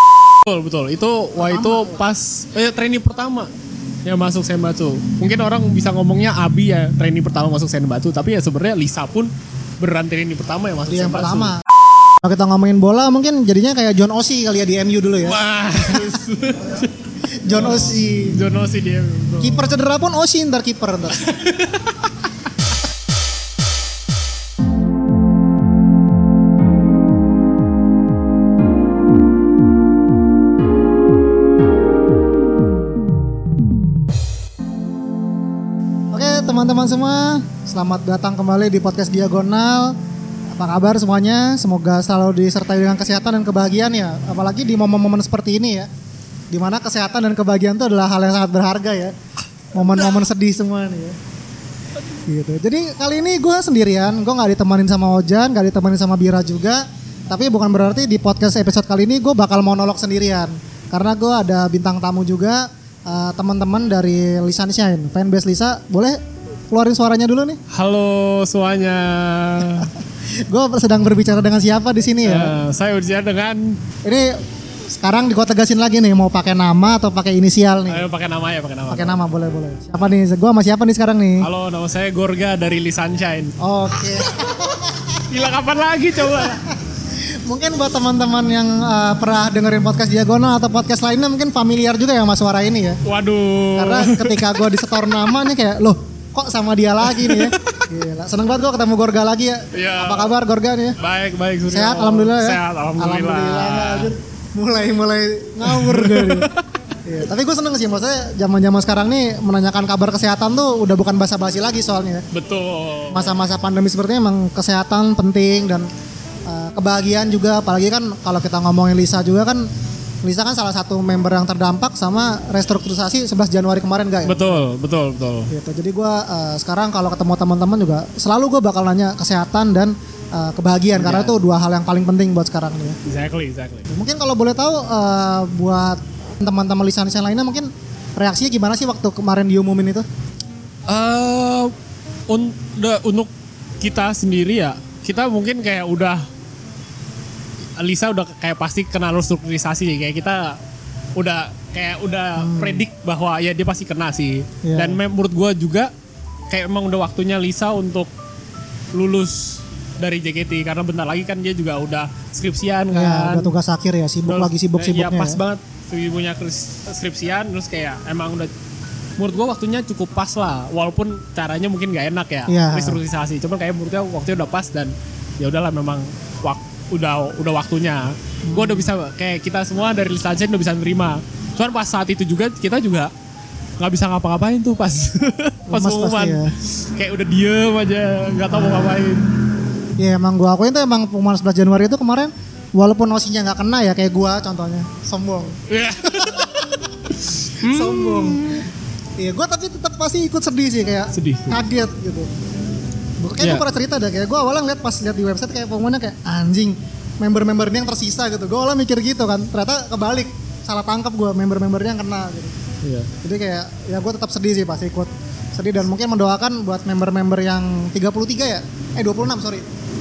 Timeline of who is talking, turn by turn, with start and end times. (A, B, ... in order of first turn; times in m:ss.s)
0:00.4-0:03.5 A
0:01.4-0:02.0 B
0:04.0-0:11.6 A
0:10.9-0:11.6 B
0:12.2-0:16.2 B
0:15.2-0:16.9 A
0:17.4-0:18.4 B
0:18.3-0:19.7 A
0:19.4-0:21.3 B
0:21.1-0:22.5 A
0:36.1-0:40.0 B
0:40.5-0:45.9 B
0:46.5-0:49.1 B
0:49.7-0:51.2 B
0:52.3-1:06.2 B
1:06.7-1:07.6 B
1:07.7-1:09.9 A
1:09.7-1:12.6 B
1:12.2-1:13.8 A
1:14.0-1:14.4 B
1:14.9-1:18.1 B
1:17.9-1:19.2 A
1:18.9-1:21.5 B
1:21.4-1:23.5 A
1:23.6-1:25.2 B
1:25.3-1:26.6 A
1:26.3-1:26.8 B
1:27.4-1:33.0 B
1:33.0-1:35.4 A
1:33.8-1:41.0 B
1:37.0-1:37.9 A
1:39.7-1:40.4 A
1:41.0-1:44.1 A
1:41.7-1:46.5 B
1:45.6-1:46.7 A
1:47.0-1:52.3 B
1:52.3-1:53.4 A
1:53.1-1:55.9 B
1:56.5-1:59.7 B
2:00.2-2:04.7 B
2:04.2-2:05.5 A
2:05.5-2:13.0 B
2:11.0-2:11.4 A
2:13.1-2:13.9 A
2:13.9-2:20.1 B
2:20.9-2:21.7 A
2:22.3-2:26.3 A
2:27.8-2:30.6 A
2:31.2-2:35.9 A
2:32.4-2:32.8 B
2:34.6-2:35.0 B
2:36.5-2:38.1 A
2:38.9-2:43.6 A
2:42.9-2:45.4 B
2:44.2-2:48.5 A
2:49.2-3:03.1 A
2:52.5-2:53.0 B
2:58.4-2:58.9 B
3:03.8-3:09.4 A
3:05.7-3:06.5 B
3:08.5-3:09.1 B
3:10.0-3:16.9 B
3:15.7-3:18.6 A
3:17.6-3:18.6 B
3:19.2-3:22.3 B
3:21.1-3:21.6 A
3:23.2-3:32.6 B
3:23.4-3:23.6 A
3:32.8-3:33.1 A
3:33.2-3:39.6 B